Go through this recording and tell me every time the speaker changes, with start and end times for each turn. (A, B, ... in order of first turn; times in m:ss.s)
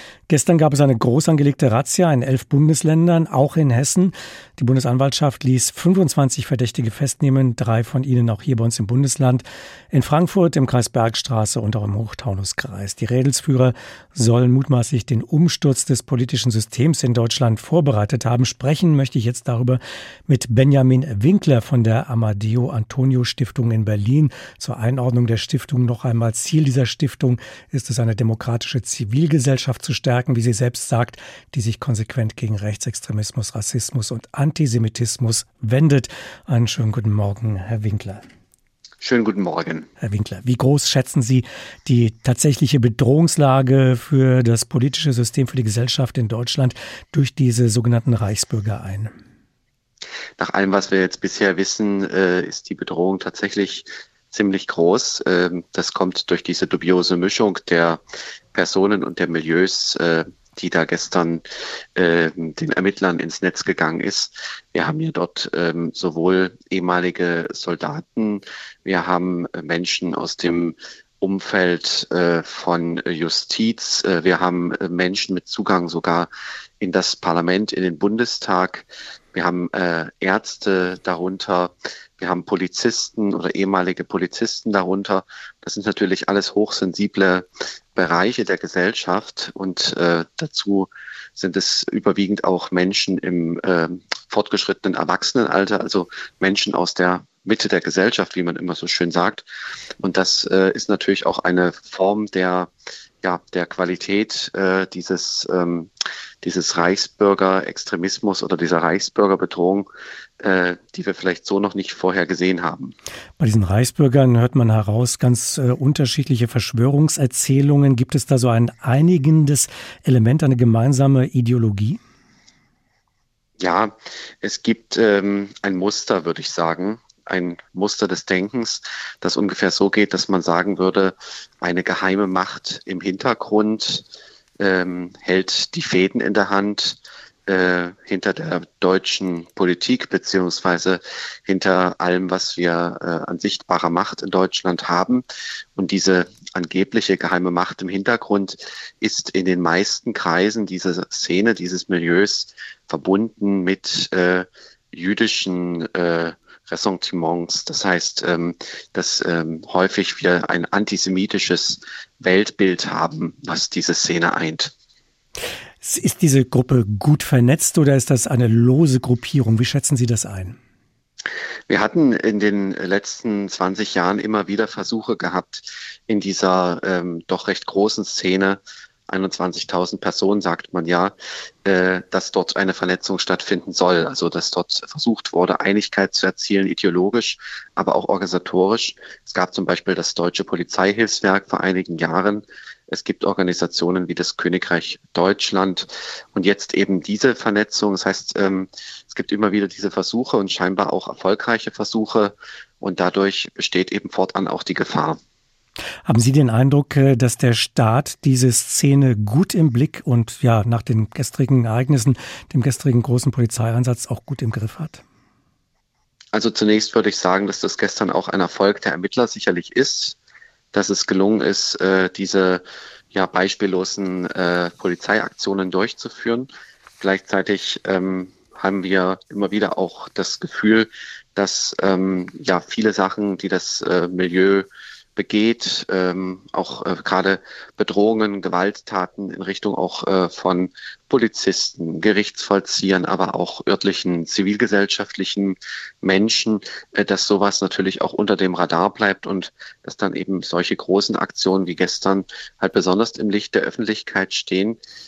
0:00.3-0:38.2 A
0:39.0-0:39.9 B
0:40.0-0:49.1 A
0:50.4-0:58.0 B
0:58.5-1:01.4 B
1:02.0-1:16.3 B
1:16.8-1:39.4 B
1:40.0-1:42.7 B
1:43.2-1:45.9 B
1:46.4-1:52.9 B
1:53.4-2:02.0 A
2:03.6-2:14.1 B
2:14.6-2:44.7 B
2:45.8-2:50.6 A
2:51.7-3:25.2 B
3:26.0-3:35.0 A
3:36.3-3:40.2 B
3:40.7-3:46.5 B
3:47.0-4:14.8 B